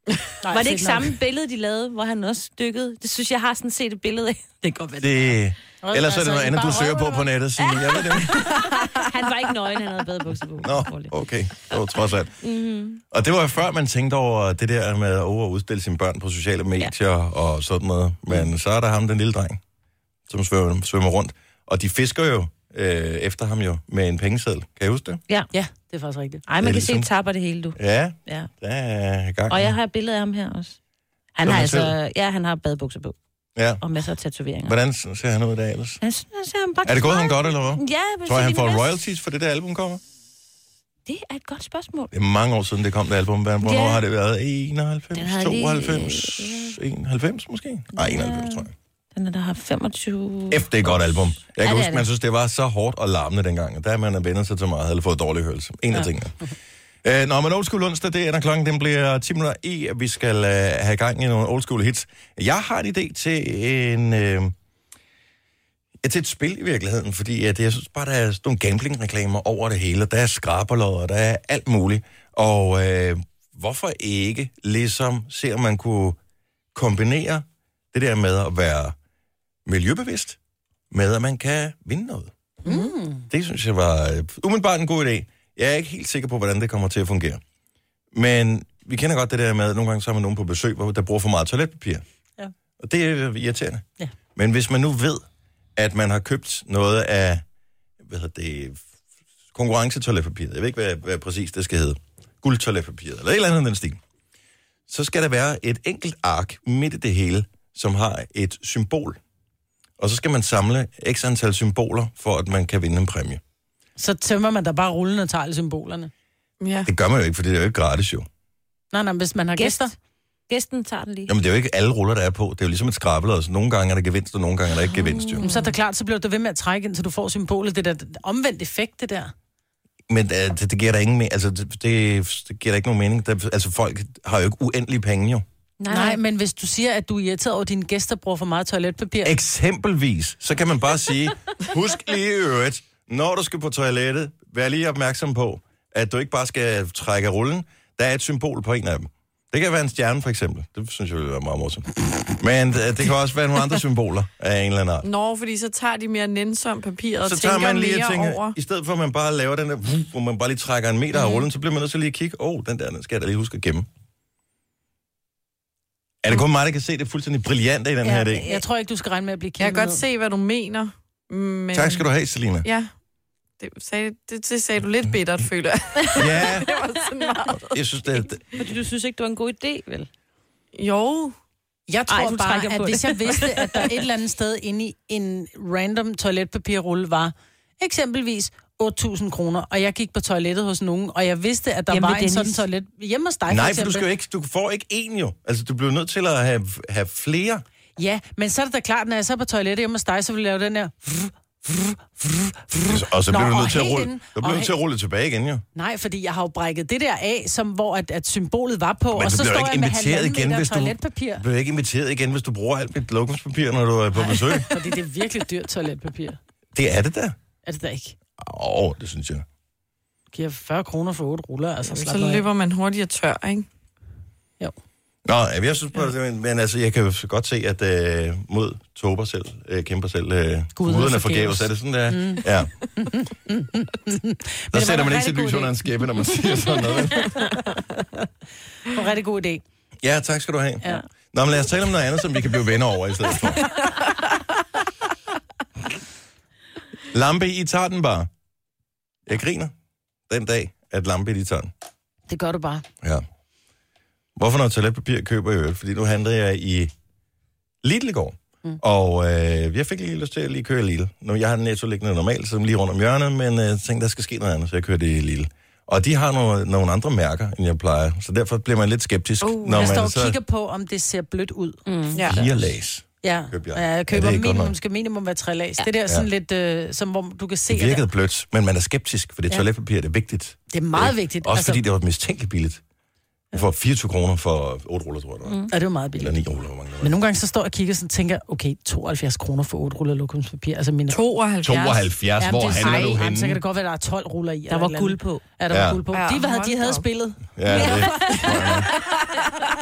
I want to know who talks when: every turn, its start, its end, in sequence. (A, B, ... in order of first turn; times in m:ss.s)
0:00.4-0:01.1 A
0:00.5-0:05.1 B
0:05.0-0:08.6 C
0:05.8-0:07.3 A
0:08.0-0:11.1 B
0:10.6-0:12.3 C
0:12.4-0:13.0 B
0:13.1-0:19.6 C
0:20.3-0:25.2 C
0:25.5-0:26.4 A
0:26.5-0:28.5 B
0:26.6-0:27.1 C
0:27.8-0:29.7 C
0:29.5-0:30.8 B
0:31.4-0:33.2 B
0:31.4-0:31.9 C
0:33.6-0:33.8 C
0:33.8-0:34.8 B
0:34.7-0:36.0 C
0:36.0-0:38.9 B
0:36.8-0:40.0 C
0:41.0-0:42.1 B
0:42.1-0:48.7 C
0:43.6-0:44.0 B
0:45.1-0:46.8 B
0:47.9-0:52.0 B
0:50.5-0:56.3 C
0:57.0-1:04.5 C
1:06.0-1:16.2 C
1:16.7-1:19.0 C
1:19.6-1:20.4 C
1:20.9-1:22.3 C
1:22.6-1:23.2 A
1:23.3-1:27.4 C
1:28.1-1:32.0 C
1:32.8-1:33.8 C
1:34.4-1:35.2 C
1:35.8-1:37.4 C
1:38.0-1:38.8 C
1:39.5-1:44.0 C
1:44.9-1:49.2 C
1:50.0-1:53.4 C
1:54.0-1:56.1 A
1:56.6-1:56.9 D
1:56.8-1:58.3 C
1:58.9-1:59.9 A
1:59.6-1:59.9 B
2:00.5-2:01.3 B
2:01.3-2:05.4 C
2:04.8-2:05.5 B
2:05.4-2:09.3 A
2:10.1-2:15.4 C
2:15.8-2:16.2 B
2:15.9-2:19.3 A
2:19.2-2:35.1 C
2:35.0-2:38.5 D
2:37.2-2:43.9 C
2:46.2-2:48.4 C
2:48.0-2:50.0 A
2:49.6-2:52.0 D
2:51.7-2:52.7 C
2:52.6-2:52.9 D
2:53.6-2:57.7 D
2:56.2-2:56.7 C
2:57.7-2:58.4 C
2:58.5-3:00.1 B
3:00.8-3:01.3 D
3:01.9-3:14.1 A
3:02.1-3:03.9 B
3:11.9-3:12.7 B
3:13.5-3:17.6 C
3:18.0-3:24.7 A
3:22.9-3:25.6 C
3:25.7-3:31.4 A
3:29.1-3:34.7 C
3:34.1-3:36.4 A
3:36.7-3:37.3 C
3:37.6-3:38.1 A
3:38.4-3:39.4 C
3:40.3-3:42.4 A
3:41.8-3:43.7 D
3:45.2-3:52.7 C
3:50.8-3:55.8 A
3:54.7-3:57.3 C
3:56.3-3:58.0 A
3:58.8-3:59.6 A
4:00.0-4:03.7 C
4:07.1-4:08.3 C
4:09.2-4:09.7 C
4:10.3-4:11.7 C
4:12.3-4:12.8 A
4:14.4-4:16.9 C
4:17.8-4:30.4 C
4:29.4-4:30.0 D
4:29.7-4:32.3 A
4:31.8-4:32.4 B
4:32.1-4:32.4 D
4:32.3-4:34.7 C
4:33.2-4:38.0 A
4:37.7-4:42.8 C
4:40.7-4:41.8 A
4:43.5-4:45.6 C
4:45.7-4:46.4 A
4:46.2-4:47.1 C
4:47.0-4:51.2 A
4:51.1-4:52.0 D
4:51.6-4:53.6 C
4:52.4-4:58.7 A
4:54.7-4:55.4 B
4:55.7-4:56.0 C
4:56.1-4:57.1 D
4:57.6-4:58.9 C
4:57.7-4:58.7 B